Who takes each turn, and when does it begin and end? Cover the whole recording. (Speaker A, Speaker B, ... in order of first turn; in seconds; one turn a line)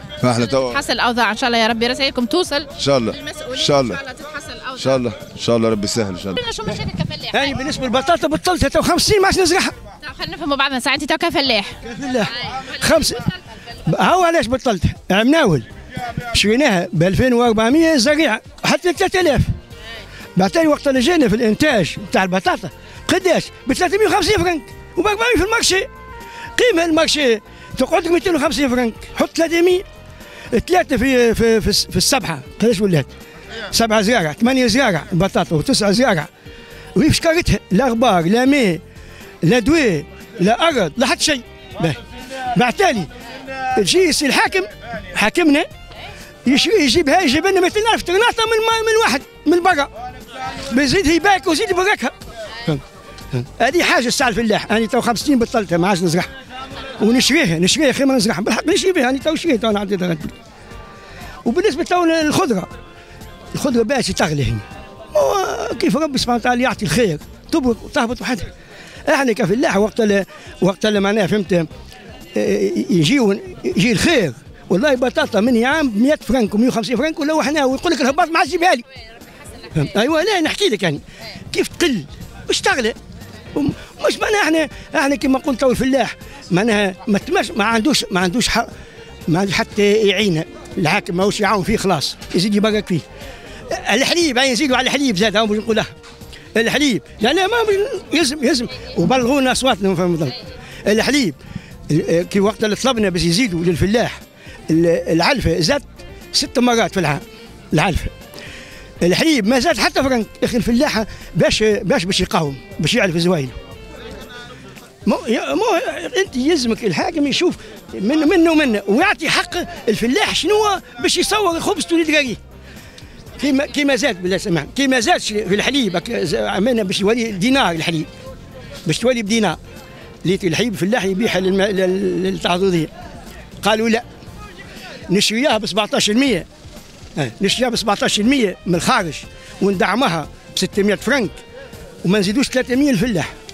Speaker A: 0.2-0.8
Speaker B: 0.3-5.0
Speaker A: 2.8-4.0
Speaker A: 4.8-6.4
Speaker B: 6.3-7.5
Speaker C: 7.3-9.7
Speaker B: 10.0-11.8
Speaker C: 11.8-13.2
Speaker B: 12.5-13.2
Speaker C: 13.8-15.7
Speaker C: 16.3-19.5
Speaker C: 20.4-25.9
Speaker C: 26.6-29.8
Speaker C: 30.5-33.1
Speaker C: 33.7-36.3
Speaker C: 37.0-38.8
Speaker C: 39.4-42.0
Speaker C: 42.5-43.1
Speaker C: 43.7-45.7
Speaker C: 46.5-49.9
Speaker C: 50.5-52.8
Speaker C: 53.3-56.3
Speaker C: 57.0-60.3
Speaker C: 61.5-62.7
Speaker C: 63.5-68.5
Speaker C: 69.1-71.7
Speaker C: 72.3-78.8
Speaker C: 79.7-83.0
Speaker C: 83.5-88.7
Speaker C: 89.3-93.0
Speaker C: 93.7-95.9
Speaker C: 96.5-101.3
Speaker C: 101.9-104.2
Speaker C: 104.7-107.2
Speaker C: 107.7-108.1
Speaker C: 109.0-113.5
Speaker C: 115.0-122.4
Speaker C: 123.4-128.1
Speaker C: 128.8-129.6
Speaker C: 130.2-132.9
Speaker C: 133.6-134.0
Speaker C: 135.1-136.4
Speaker C: 137.2-141.3
Speaker C: 142.0-143.3